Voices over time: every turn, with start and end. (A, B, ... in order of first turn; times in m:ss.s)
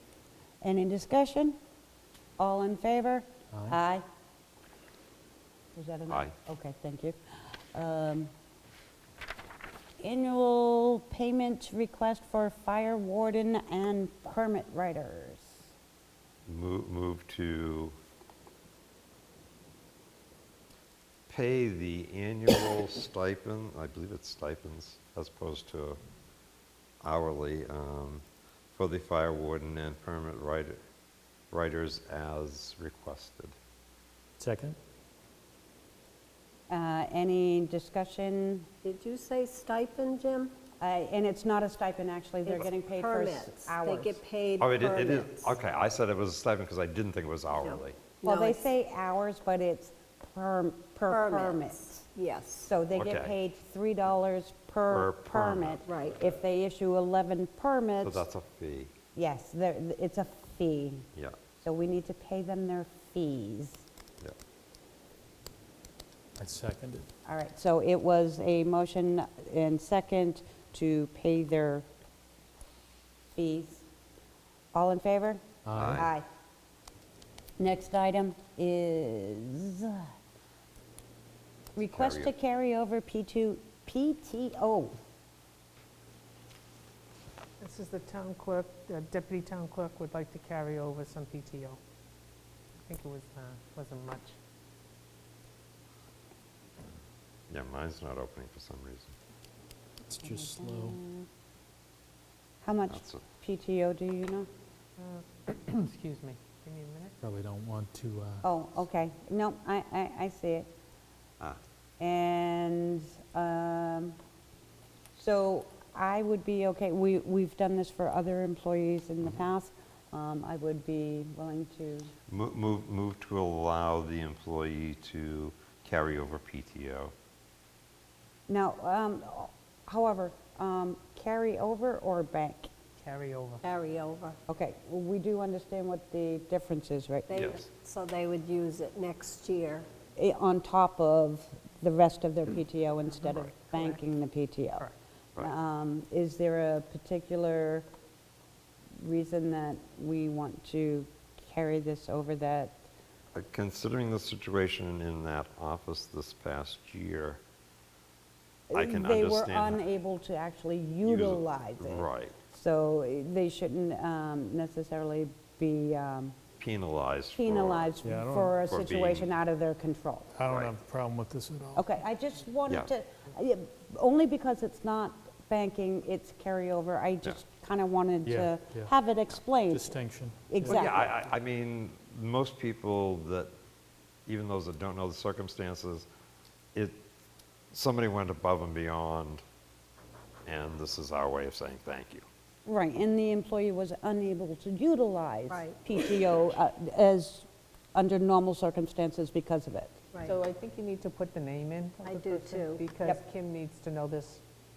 0:00.6-0:01.6 A
0:02.4-0:04.0 A
0:03.5-0:03.8 B
0:05.7-0:07.2 A
0:07.7-0:08.3 A
0:10.0-0:15.6 A
0:16.4-0:18.0 C
0:21.3-0:26.0 C
0:27.0-0:28.2 C
0:28.7-0:30.8 C
0:31.5-0:33.6 C
0:34.4-0:34.8 B
0:36.7-0:38.7 A
0:38.8-0:40.6 D
0:40.8-0:44.2 A
0:42.5-0:45.5 D
0:44.6-0:48.0 C
0:47.6-0:48.6 D
0:48.2-0:52.0 A
0:51.1-0:52.7 D
0:52.6-0:58.2 A
0:52.9-0:53.3 C
0:54.9-0:56.3 C
0:55.8-0:56.2 D
0:58.0-0:58.9 C
0:59.1-1:01.1 A
1:01.6-1:03.8 A
1:06.4-1:07.0 B
1:07.2-1:11.8 A
1:13.3-1:13.8 A
1:14.7-1:16.2 A
1:15.6-1:16.0 B
1:15.7-1:16.1 C
1:17.6-1:20.0 A
1:21.7-1:25.0 A
1:21.9-1:22.3 C
1:27.6-1:31.8 E
1:32.8-1:34.3 E
1:37.5-1:39.1 C
1:40.1-1:41.0 B
1:40.2-1:41.2 A
1:42.6-1:44.5 A
1:42.9-1:43.2 C
1:45.0-1:47.1 E
1:47.2-1:48.4 B
1:48.4-1:50.7 A
1:52.0-1:54.2 A
1:55.2-2:02.1 A
2:02.3-2:07.1 C
2:08.5-2:12.7 A
2:13.0-2:13.6 E
2:13.6-2:14.4 D
2:14.5-2:17.4 A
2:17.3-2:19.9 D
2:17.4-2:17.6 C
2:20.2-2:24.9 A
2:23.3-2:23.9 E
2:25.4-2:27.8 A
2:29.0-2:32.8 A
2:33.3-2:37.4 C
2:38.7-2:46.4 A
2:38.7-2:39.8 C
2:41.0-2:42.3 C
2:46.6-2:47.9 C
2:47.3-2:50.3 A
2:48.0-2:48.6 B
2:48.7-2:49.3 C
2:50.3-2:51.8 B
2:50.5-2:50.7 C
2:51.7-3:00.0 A
2:58.2-2:58.9 B
2:59.7-3:00.8 B
3:00.5-3:01.1 A
3:00.6-3:03.5 C
3:04.3-3:06.1 C
3:06.7-3:07.0 C
3:07.7-3:09.4 C
3:10.4-3:12.2 C
3:12.6-3:20.0 A
3:15.5-3:15.8 D
3:20.2-3:24.4 E
3:22.0-3:22.9 D